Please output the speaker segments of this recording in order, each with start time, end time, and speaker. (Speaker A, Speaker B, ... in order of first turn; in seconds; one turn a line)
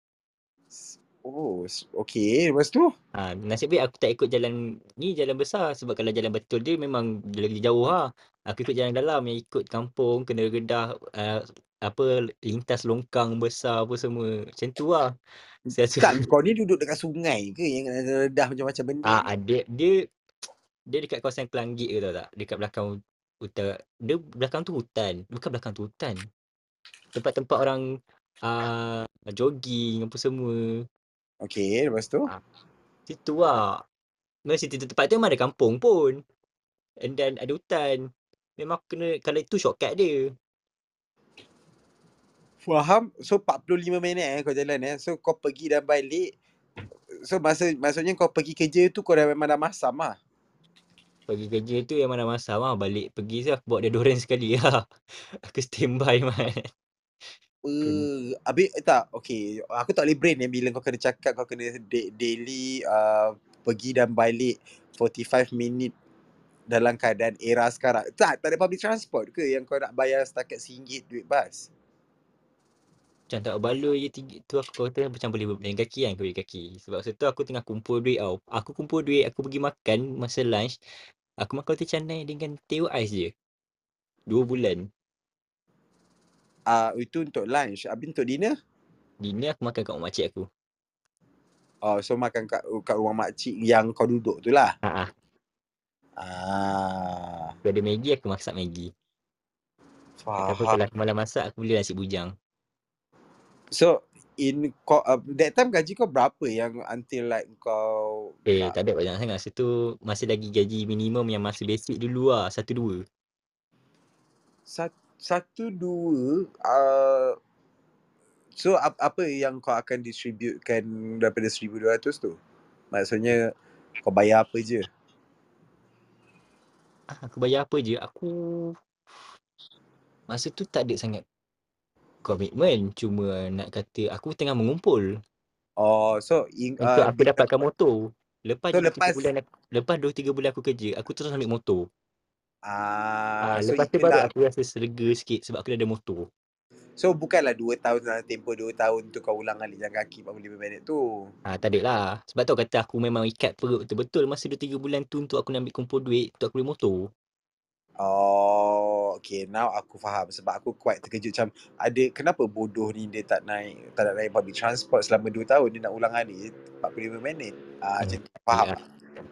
Speaker A: 0.7-2.9
Speaker B: 3.2-15.1
Speaker B: 15.7-16.2
Speaker A: 16.0-19.2
Speaker B: 19.1-20.1
Speaker B: 20.9-26.3
Speaker B: 27.1-27.8
Speaker B: 28.4-30.8
Speaker A: 31.4-32.3
Speaker B: 33.1-33.8
Speaker B: 34.5-36.2
Speaker B: 37.0-40.3
Speaker A: 42.6-46.3
Speaker A: 47.2-50.2
Speaker B: 51.3-54.8
Speaker B: 55.5-56.7
Speaker A: 57.6-65.9
Speaker A: 66.7-71.7
Speaker B: 73.3-80.7
Speaker B: 81.4-83.3
Speaker B: 84.3-84.9
Speaker A: 86.7-88.5
Speaker B: 89.2-90.5
Speaker A: 91.8-94.7
Speaker B: 94.8-95.1
Speaker A: 96.2-97.5
Speaker B: 97.7-98.9
Speaker A: 100.2-100.8
Speaker B: 100.5-102.3
Speaker A: 103.7-108.8
Speaker B: 108.5-113.0
Speaker A: 114.7-117.4
Speaker A: 118.5-122.4
Speaker A: 122.9-124.9
Speaker B: 127.1-128.8
Speaker B: 130.3-131.2
Speaker B: 132.2-135.1
Speaker A: 135.8-137.4
Speaker B: 136.8-141.9
Speaker A: 138.7-139.3
Speaker A: 142.7-144.3
Speaker B: 143.4-146.3
Speaker A: 147.0-151.3
Speaker B: 151.5-157.1
Speaker A: 158.0-168.7
Speaker B: 168.0-168.8